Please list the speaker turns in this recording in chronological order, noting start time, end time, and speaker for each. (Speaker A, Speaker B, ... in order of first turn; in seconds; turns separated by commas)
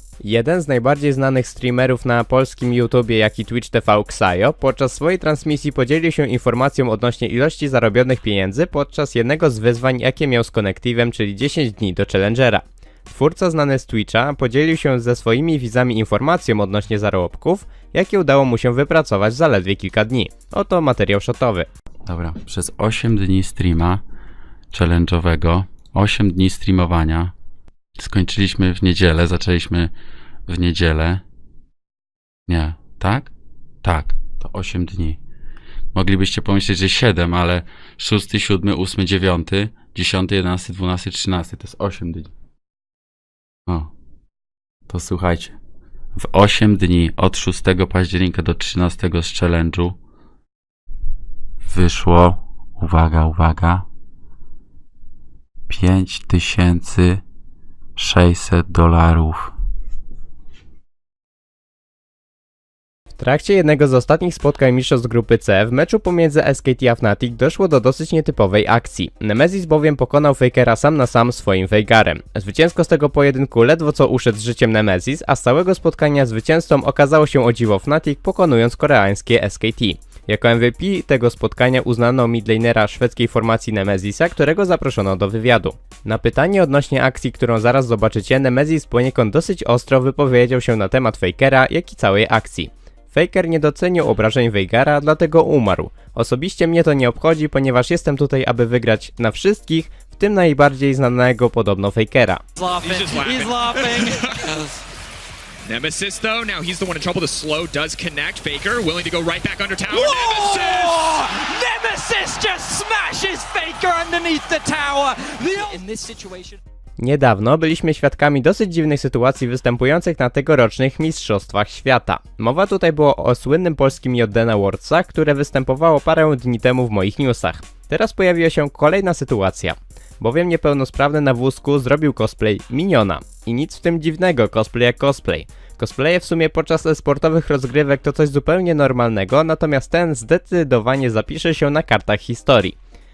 Speaker A: 0.2-21.7, Speaker B: 22.1-24.0, Speaker B: 24.7-27.3, Speaker B: 28.0-29.9, Speaker B: 30.5-31.2, Speaker B: 32.5-33.3, Speaker B: 33.8-35.2, Speaker B: 35.9-42.3, Speaker B: 44.9-45.6, Speaker B: 46.1-50.0, Speaker B: 51.7-53.9, Speaker B: 55.7-57.2, Speaker B: 58.0-59.5, Speaker A: 63.2-102.4, Speaker C: 102.6-104.6, Speaker D: 102.6-104.7, Speaker C: 105.6-111.3, Speaker D: 109.9-116.6, Speaker A: 117.0-142.8